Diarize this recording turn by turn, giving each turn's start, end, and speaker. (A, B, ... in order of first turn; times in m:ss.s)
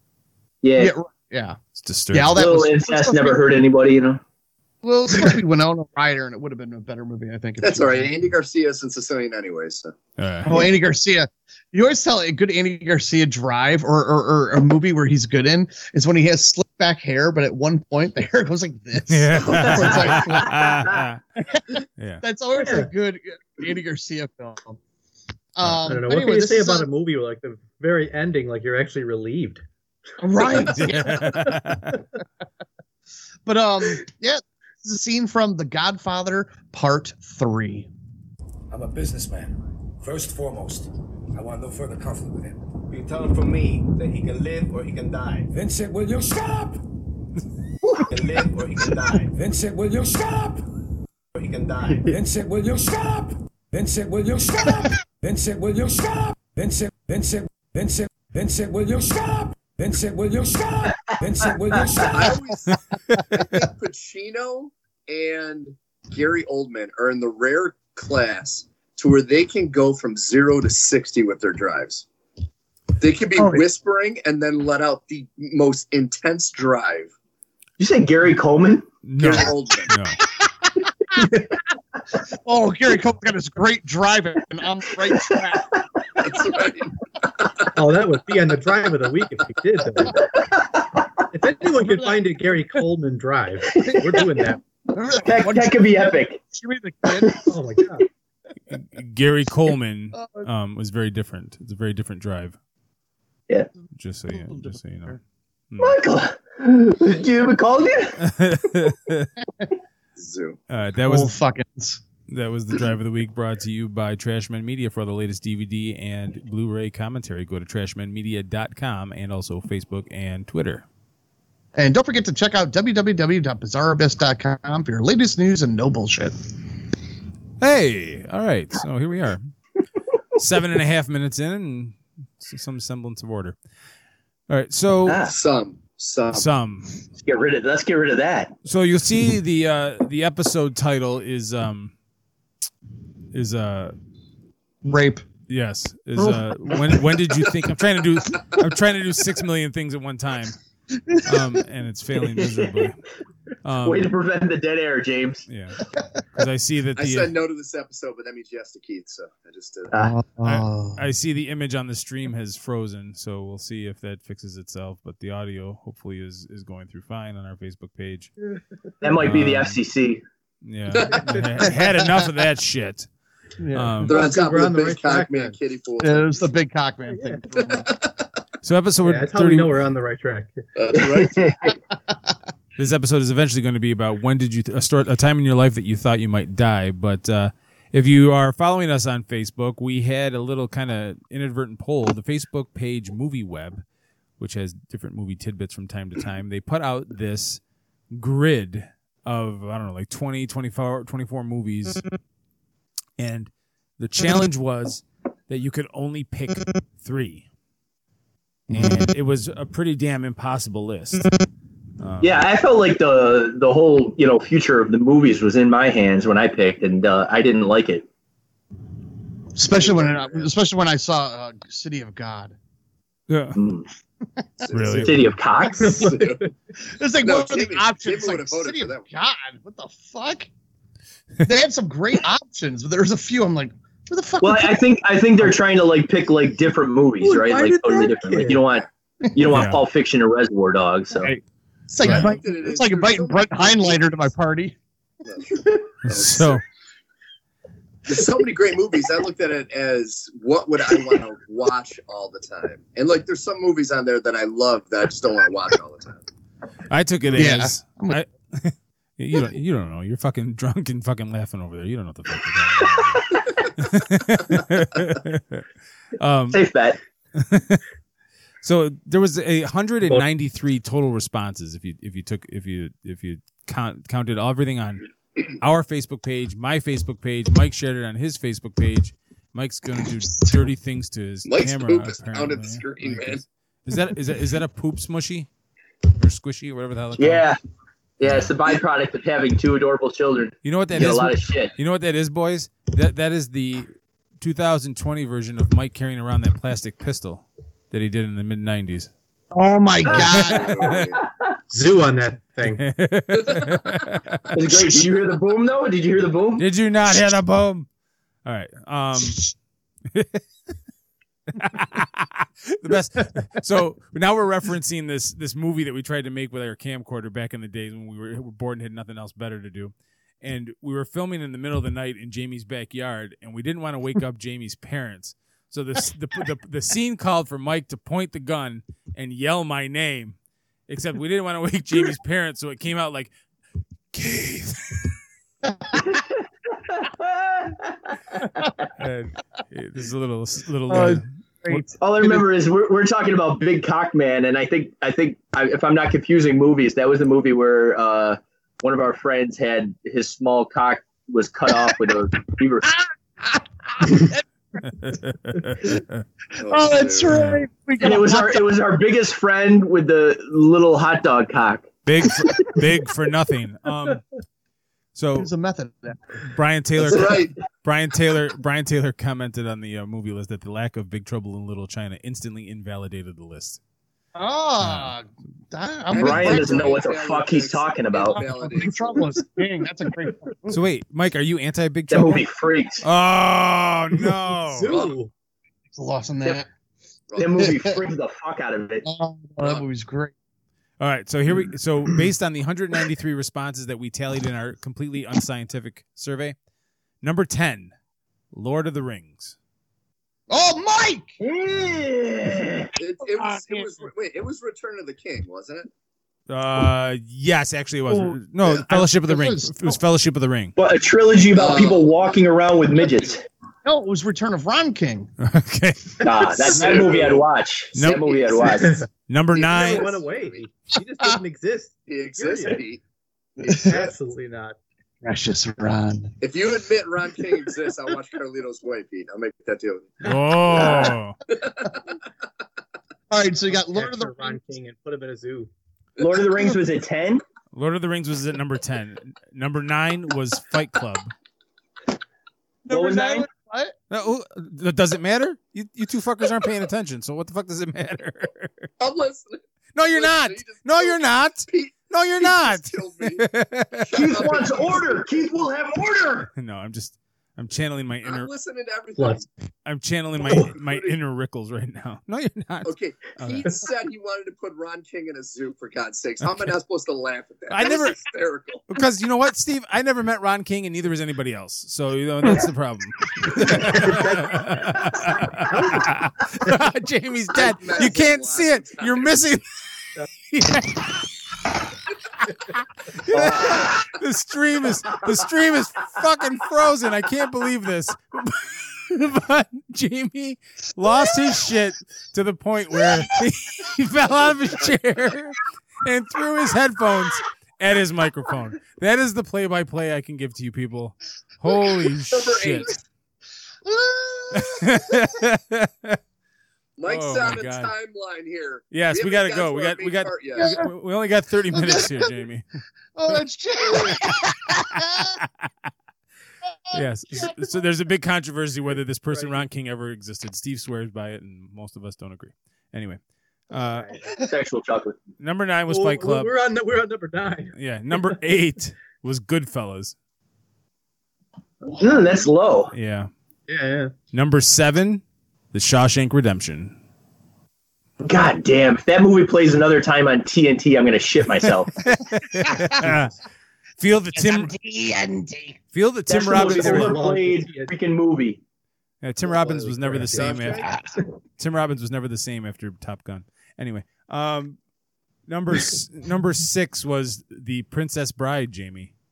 0:00.6-0:00.9 A
0:00.8-0:01.6 B
0:01.8-0:02.4 C
0:02.1-0:03.6 B
0:02.3-0:04.2 A
0:04.8-0:08.1 B
0:07.6-0:09.9 D
0:10.2-0:10.6 C
0:10.4-0:20.6 B
0:19.1-0:21.2 C
0:19.5-0:21.0 A
0:21.5-0:24.8 B
0:22.0-0:22.2 C
0:25.5-0:26.9 B
0:25.9-0:29.6 E
0:30.2-0:31.2 B
0:30.6-0:32.0 C
0:33.4-0:37.9 B
0:38.7-0:46.8 F
0:48.0-0:50.6 F
0:51.3-1:02.4 F
1:02.1-1:02.8 D
1:03.3-1:12.0 D
1:13.0-1:17.1 D
1:13.3-1:13.6 B
1:17.8-1:18.8 A
1:19.0-1:20.2 C
1:19.2-1:19.9 D
1:20.6-1:21.4 B
1:22.3-1:25.8 B
1:26.2-1:27.5 D
1:27.8-1:30.1 E
1:30.4-1:30.8 A
1:31.3-1:34.5 E
1:31.7-1:32.8 B
1:33.7-1:34.5 A
1:33.7-1:37.6 B
1:35.2-1:36.4 A
1:37.5-1:38.0 E
1:38.7-1:42.6 C
1:40.1-1:40.4 B
1:43.9-1:45.2 C
1:44.3-1:45.2 B
1:45.7-1:46.0 C
1:45.8-1:48.2 A
1:48.2-1:49.3 C
1:50.2-1:50.6 D
1:50.7-1:51.3 C
1:51.0-1:52.0 B
1:52.3-2:00.8 C
2:01.7-2:06.4 B
2:07.6-2:09.4 C
2:10.4-2:13.6 C
2:14.5-2:15.2 C
2:15.0-2:15.3 A
2:15.3-2:16.4 D
2:16.3-2:16.9 C
2:17.2-2:18.5 A
2:18.6-2:21.9 C
2:23.3-2:23.9 C
2:24.8-2:25.2 B
2:25.5-2:30.6 C
2:31.1-2:31.6 B
2:31.2-2:33.0 C
2:33.6-2:34.1 C
2:33.8-2:35.4 A
2:35.5-2:35.8 C
2:36.3-2:37.3 C
2:37.0-2:39.9 D
2:39.9-2:41.0 B
2:40.4-2:48.3 C
2:49.0-2:50.2 A
2:49.2-2:49.8 C
2:50.6-2:53.1 C
2:51.0-2:51.3 D
2:53.6-2:54.0 B
2:53.7-2:54.2 C
2:54.0-2:56.4 D
2:54.1-2:55.5 E
2:56.0-2:57.9 B
2:57.6-2:58.1 D
2:58.6-2:59.8 C
2:59.0-3:00.5 E
3:00.8-3:01.7 D
3:01.2-3:01.7 A
3:02.8-3:13.8 C
3:14.4-3:22.0 C
3:23.2-3:27.4 C
3:28.7-3:31.3 C
3:32.0-3:32.5 C
3:32.2-3:38.0 A
3:39.5-3:42.6 B
3:39.7-3:40.5 D
3:43.3-3:43.6 C
3:43.6-3:43.8 A
3:44.6-3:45.1 D
3:44.7-3:45.4 C
3:44.9-3:46.1 A
3:45.6-3:46.5 D
3:45.8-3:46.1 E
3:46.8-3:50.5 B
3:47.2-3:49.0 D
3:51.4-3:55.6 B
3:54.4-4:01.3 A
3:57.3-3:58.5 E
3:59.5-3:59.8 C
4:01.2-4:04.8 B
4:02.0-4:04.0 D
4:05.2-4:06.6 D
4:06.0-4:06.6 C
4:08.0-4:16.2 D
4:16.9-4:25.6 C
4:17.3-4:18.2 B
4:23.1-4:23.4 A
4:26.2-4:26.7 C
4:26.5-4:27.0 A
4:27.4-4:27.8 C
4:28.6-4:45.5 C
4:41.4-4:43.4 D
4:46.2-4:47.5 C
4:47.2-4:47.6 A
4:48.2-4:51.7 A
4:48.2-4:48.5 C
4:50.6-4:53.9 C
4:54.4-4:59.1 C
4:59.5-5:00.8 B
5:00.0-5:01.2 D
5:00.2-5:01.0 C
5:01.7-5:02.8 E
5:02.6-5:04.6 C
5:04.5-5:06.6 A
5:06.6-5:07.9 C
5:08.4-5:09.5 C
5:10.1-5:10.4 C
5:11.5-5:30.4 C
5:30.9-5:33.3 C
5:34.1-5:35.1 C
5:36.0-5:38.7 A
5:39.0-5:41.8 C
5:40.9-5:42.4 B
5:42.0-5:52.9 A
5:52.9-5:54.4 B
5:54.8-5:56.2 C
5:56.6-5:57.3 D
5:56.6-5:58.8 B
5:57.3-5:57.6 C
5:58.0-6:01.9 A
6:02.0-6:04.2 C
6:05.1-6:05.5 C
6:05.4-6:06.2 B
6:06.4-6:13.8 C
6:07.0-6:07.6 D
6:14.3-6:17.1 B
6:14.8-6:15.1 C
6:16.1-6:19.3 D
6:16.2-6:18.4 A
6:18.3-6:20.8 B
6:20.7-6:22.4 C
6:22.1-6:23.0 A
6:23.0-6:25.0 C
6:24.8-6:25.2 E
6:25.9-6:26.7 B
6:27.3-6:27.8 D
6:27.4-6:29.0 A
6:27.6-6:28.0 B
6:29.0-6:30.3 B
6:31.0-6:36.6 C
6:37.2-6:37.9 C
6:38.5-6:39.6 C
6:40.5-6:41.3 B
6:41.4-6:42.9 A
6:43.0-6:45.9 D
6:43.2-6:44.1 B
6:46.5-6:50.7 C
6:48.1-6:50.0 B
6:50.8-6:53.4 A
6:51.5-6:52.2 D
6:53.8-6:55.3 B
6:55.4-6:56.2 C
6:56.2-6:59.0 A
6:56.6-6:57.5 D
6:57.9-6:58.4 C
6:58.3-6:58.6 D
6:59.3-7:00.2 C
6:59.5-7:00.7 D
6:59.7-7:01.9 E
7:02.1-7:03.0 D
7:02.4-7:02.8 E
7:03.6-7:04.2 D
7:03.6-7:04.0 B
7:03.9-7:04.8 E
7:05.2-7:06.3 B
7:06.4-7:10.2 D
7:10.2-7:11.4 C
7:10.8-7:11.1 B
7:11.5-7:12.0 D
7:13.3-7:14.6 B
7:13.9-7:15.7 E
7:16.2-7:17.4 A
7:16.2-7:16.4 D
7:17.7-7:21.3 C
7:22.8-7:24.0 B
7:22.9-7:23.5 A
7:24.1-7:28.9 C
7:29.0-7:35.2 D
7:29.9-7:34.3 C
7:34.1-7:36.5 A
7:36.5-7:38.5 C
7:38.2-7:39.4 D
7:39.8-7:43.7 C
7:40.5-7:41.2 D
7:42.8-7:48.8 D
7:47.7-7:48.2 C
7:48.9-7:59.6 C
7:54.0-7:54.4 A
7:57.5-7:59.3 D
8:00.5-8:01.2 C
8:02.6-8:22.9 C
8:03.3-8:04.0 A
8:22.3-8:23.0 D
8:23.8-8:24.9 B
8:24.5-8:26.2 C
8:27.0-8:30.7 D
8:27.0-8:27.9 C
8:28.9-8:32.6 C
8:30.6-8:30.9 B
8:31.7-8:32.3 B
8:33.1-8:35.4 B
8:34.9-8:35.7 C
8:36.9-8:37.5 B
8:36.9-8:43.2 C
8:43.7-8:44.2 C
8:44.4-8:45.2 A
8:45.4-8:46.6 C
8:45.9-8:47.7 E
8:47.7-8:50.2 C
8:52.0-8:52.9 A
8:52.9-8:53.3 C
8:53.7-8:54.1 E
8:54.3-8:57.0 C
8:58.2-9:02.0 A
9:02.0-9:03.3 C
9:02.6-9:03.1 B
9:04.0-9:04.7 C
9:04.3-9:05.8 B
9:05.9-9:07.2 C
9:06.3-9:08.6 A
9:06.6-9:07.9 E
9:09.2-9:10.8 C
9:09.5-9:10.6 E
9:10.3-9:10.9 D
9:10.8-9:11.3 B
9:11.6-9:14.8 C
9:15.5-9:19.1 C